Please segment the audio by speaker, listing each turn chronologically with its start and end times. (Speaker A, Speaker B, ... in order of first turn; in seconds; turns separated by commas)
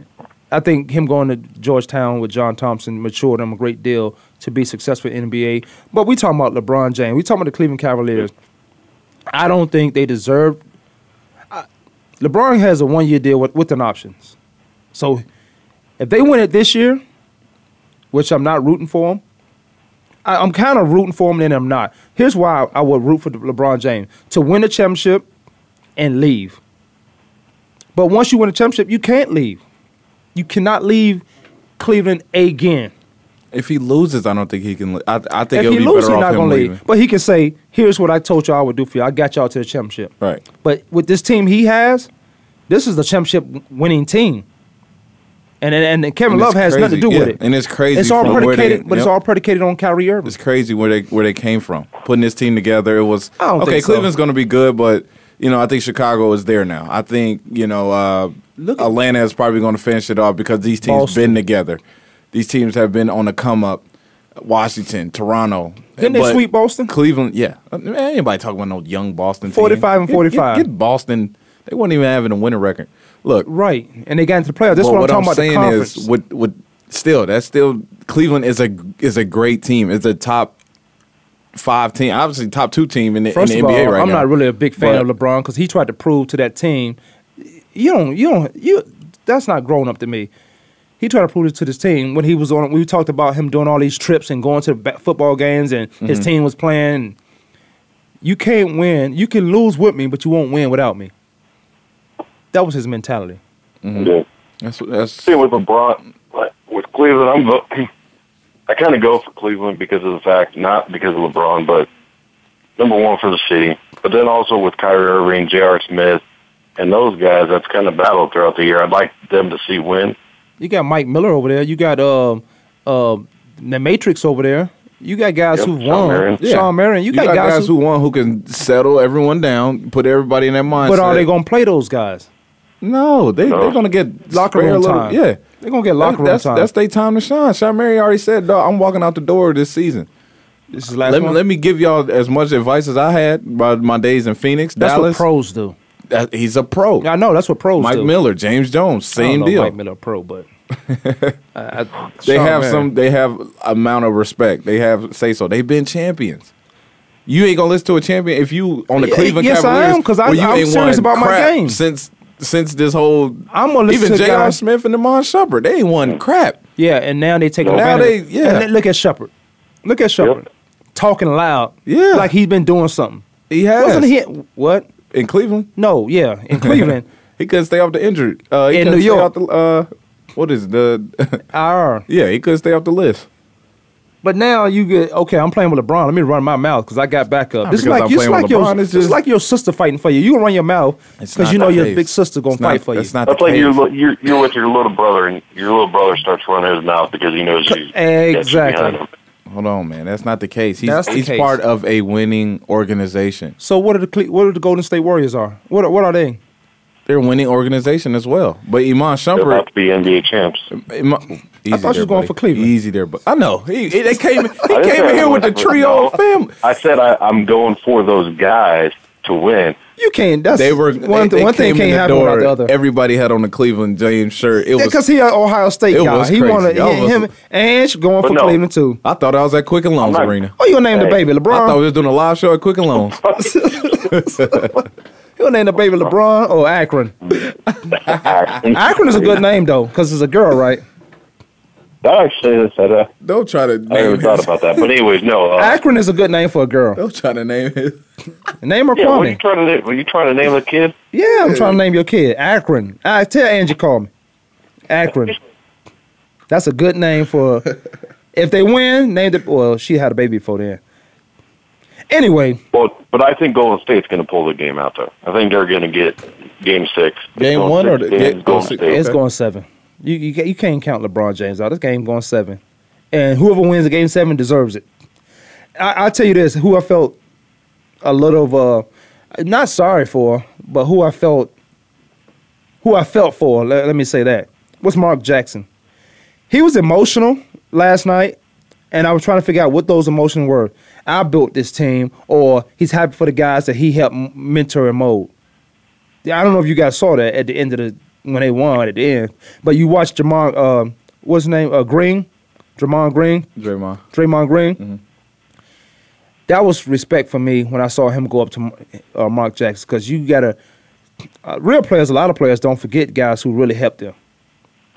Speaker A: 0.5-8.3, Speaker A: 9.3-10.6, Speaker A: 12.2-14.3, Speaker A: 14.9-15.2, Speaker A: 16.0-17.0, Speaker A: 18.1-19.2, Speaker A: 20.2-25.2, Speaker A: 26.0-26.6, Speaker A: 27.9-29.6, Speaker A: 30.3-31.2, Speaker A: 31.8-32.9, Speaker B: 33.5-36.8, Speaker A: 35.5-42.1, Speaker A: 42.7-44.5, Speaker A: 45.6-47.4, Speaker B: 46.3-49.1, Speaker A: 47.9-50.3, Speaker B: 50.2-61.8, Speaker A: 53.4-54.1, Speaker A: 58.6-58.9, Speaker A: 60.8-61.4, Speaker B: 62.3-63.8, Speaker B: 64.4-73.5, Speaker A: 66.0-66.9, Speaker A: 69.5-70.7, Speaker A: 73.4-76.1, Speaker B: 74.7-80.5, Speaker B: 81.5-85.1, Speaker A: 83.3-87.0, Speaker A: 87.7-90.3, Speaker A: 91.0-97.2, Speaker B: 96.0-96.3, Speaker A: 98.2-101.1, Speaker A: 102.5-103.4, Speaker B: 103.8-105.3, Speaker C: 103.9-104.2, Speaker C: 105.2-107.9, Speaker C: 108.7-111.9, Speaker C: 112.8-116.2, Speaker C: 116.8-120.2, Speaker A: 120.6-127.7, Speaker C: 125.5-126.4, Speaker B: 126.4-131.3, Speaker A: 130.8-132.3, Speaker B: 132.8-135.4, Speaker C: 133.4-133.8, Speaker A: 134.3-136.7, Speaker B: 136.0-140.1, Speaker A: 140.7-141.4, Speaker B: 141.0-145.2, Speaker A: 144.8-145.8, Speaker B: 146.1-147.1, Speaker A: 147.0-148.1, Speaker B: 147.8-149.8, Speaker A: 149.2-150.5, Speaker B: 150.8-151.3, Speaker A: 151.5-152.9, Speaker B: 152.2-156.5, Speaker B: 157.2-166.6, Speaker A: 159.0-161.8, Speaker A: 163.5-164.6, Speaker A: 166.8-169.3, Speaker B: 167.7-168.7, Speaker A: 169.8-173.3, Speaker B: 171.8-172.3, Speaker B: 173.5-174.1, Speaker A: 173.8-174.9, Speaker B: 175.1-175.7, Speaker A: 175.8-177.1, Speaker B: 176.5-181.4, Speaker A: 178.7-179.3, Speaker A: 181.5-182.1, Speaker B: 182.1-183.3, Speaker A: 184.2-193.1, Speaker B: 187.6-189.2, Speaker B: 191.2-193.8, Speaker C: 193.2-199.1, Speaker A: 197.7-199.0, Speaker B: 199.5-203.6, Speaker A: 200.8-201.6, Speaker A: 203.6-206.4, Speaker B: 207.1-209.6, Speaker C: 209.3-210.7, Speaker B: 210.7-216.5, Speaker A: 211.7-212.7, Speaker C: 214.7-219.8, Speaker A: 220.0-222.7, Speaker B: 220.5-225.0, Speaker A: 224.8-229.0, Speaker B: 225.9-227.3, Speaker C: 228.2-228.6, Speaker B: 229.0-230.5, Speaker C: 230.0-230.3, Speaker A: 230.6-231.8, Speaker C: 230.9-231.2, Speaker B: 231.5-233.2, Speaker C: 233.2-233.5, Speaker A: 233.4-234.8, Speaker B: 234.0-234.8, Speaker A: 235.4-237.1, Speaker C: 237.9-239.4, Speaker A: 238.7-240.8, Speaker C: 242.0-243.1, Speaker B: 243.2-244.8, Speaker C: 243.9-245.8, Speaker A: 245.6-247.0, Speaker B: 246.9-248.0, Speaker A: 248.6-249.4, Speaker C: 248.9-250.9, Speaker A: 251.1-254.1, Speaker B: 251.4-251.8, Speaker A: 254.9-255.4, Speaker A: 256.5-257.8, Speaker A: 258.3-260.8, Speaker A: 262.1-262.6, Speaker C: 262.7-269.0, Speaker B: 267.4-269.2, Speaker A: 268.7-272.6, Speaker A: 273.1-274.8, Speaker A: 275.8-277.1, Speaker A: 278.0-281.5, Speaker A: 282.8-285.7, Speaker A: 286.5-288.4, Speaker A: 288.9-295.3, Speaker A: 296.2-303.5, Speaker B: 303.6-304.0, Speaker A: 304.1-304.8, Speaker A: 306.5-310.6, Speaker A: 311.4-314.1